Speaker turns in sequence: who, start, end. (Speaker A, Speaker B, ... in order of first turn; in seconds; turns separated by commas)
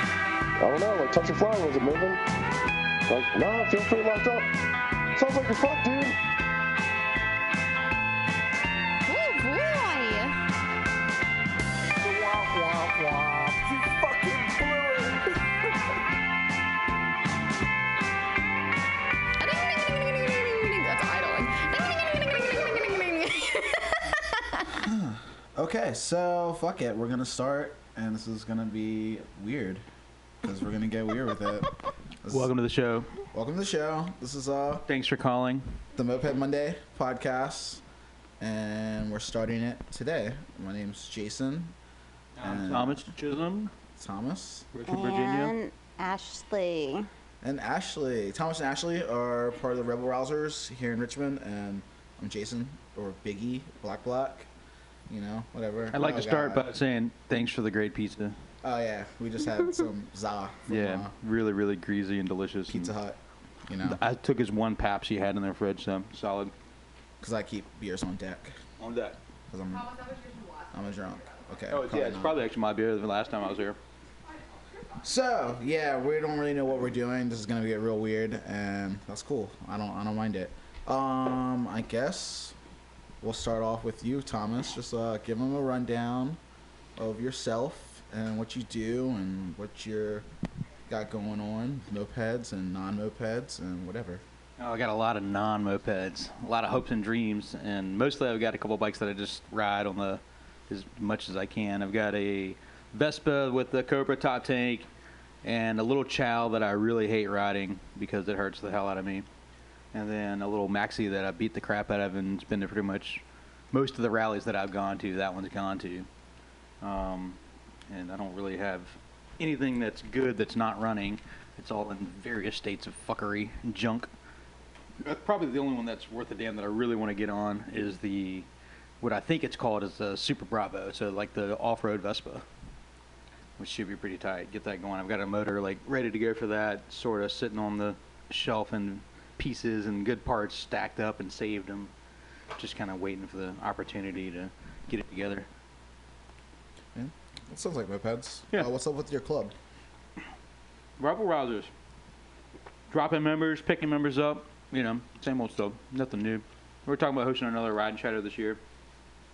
Speaker A: 0.6-2.2, Speaker A: 3.1-4.5, Speaker A: 5.2-6.2, Speaker B: 9.1-10.3, Speaker C: 12.1-15.3, Speaker B: 12.1-13.5, Speaker B: 19.4-24.8, Speaker C: 24.7-29.8, Speaker C: 30.4-31.7, Speaker C: 32.2-32.5, Speaker D: 32.3-33.1, Speaker C: 33.3-34.9, Speaker D: 34.9-35.8, Speaker C: 36.0-37.8, Speaker C: 38.4-41.7, Speaker D: 42.4-43.7, Speaker C: 42.4-43.1, Speaker C: 44.0-44.7, Speaker D: 44.7-45.5, Speaker E: 44.9-47.1, Speaker C: 47.4-54.5, Speaker C: 55.1-56.7, Speaker D: 55.9-58.4, Speaker C: 58.6-61.1, Speaker D: 60.7-62.9, Speaker C: 62.7-64.0, Speaker D: 63.8-66.5, Speaker C: 67.2-68.5, Speaker D: 68.8-69.2, Speaker C: 69.5-69.9, Speaker B: 69.7-70.9, Speaker C: 70.7-72.4, Speaker D: 71.7-73.8, Speaker B: 74.5-74.8, Speaker C: 75.0-82.5, Speaker C: 83.2-86.4, Speaker C: 87.0-90.2, Speaker C: 90.9-94.2, Speaker D: 94.6-104.9, Speaker D: 105.4-109.2, Speaker D: 109.9-116.1, Speaker D: 116.8-117.4, Speaker D: 117.9-124.1, Speaker D: 125.0-128.5, Speaker D: 129.0-132.4, Speaker D: 133.6-141.9, Speaker D: 142.6-145.5, Speaker C: 146.9-149.5, Speaker D: 151.0-151.7, Speaker D: 152.9-158.6